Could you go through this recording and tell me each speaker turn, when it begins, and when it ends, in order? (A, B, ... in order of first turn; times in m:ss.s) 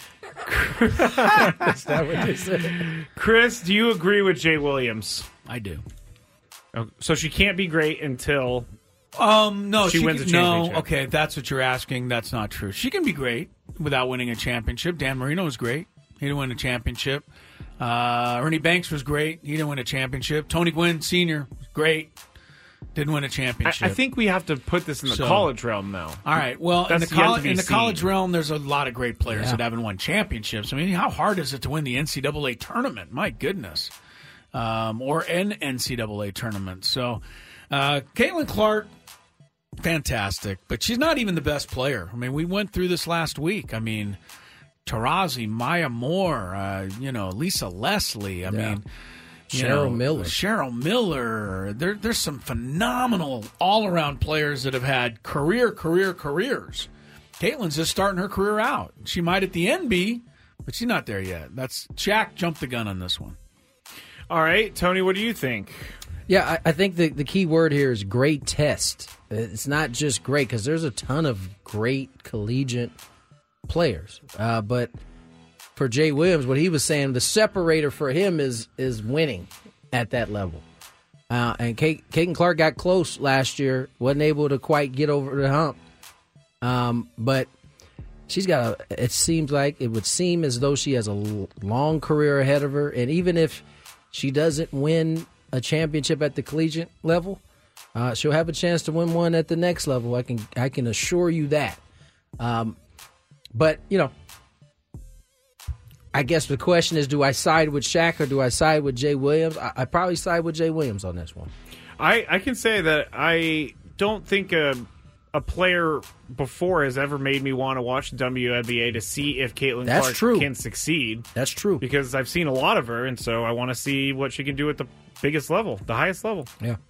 0:00.4-0:01.7 A
0:01.3-0:02.8 B
0:02.6-0:05.3 A
0:05.5-0:05.8 C
0:06.8-0:08.7 A
0:09.2-0:17.3 C
0:09.8-0:10.8 A
0:17.8-0:22.1 C
0:23.0-0:24.0 C
0:23.6-0:26.2 A
0:25.1-0:25.5 C
0:26.2-0:33.9 C
0:26.8-0:28.0 A
0:29.3-0:29.6 B
0:34.5-0:38.9 C
0:39.8-0:44.2 C
0:44.8-0:48.8 C
0:48.5-0:48.8 B
0:49.5-0:50.4 B
0:49.5-0:56.9 C
0:57.4-1:03.4 C
1:04.3-1:05.8 A
1:06.3-1:12.9 B
1:13.7-1:14.9 B
1:15.8-1:20.6 B
1:21.3-1:25.8 B
1:26.6-1:27.5 B
1:28.3-1:37.4 B
1:38.0-1:41.8 B
1:42.4-1:42.8 B
1:43.6-1:44.1 B
1:46.1-1:51.5 B
1:52.0-2:01.3 A
1:59.8-2:00.5 B
2:01.4-2:01.8 B
2:01.8-2:06.5 A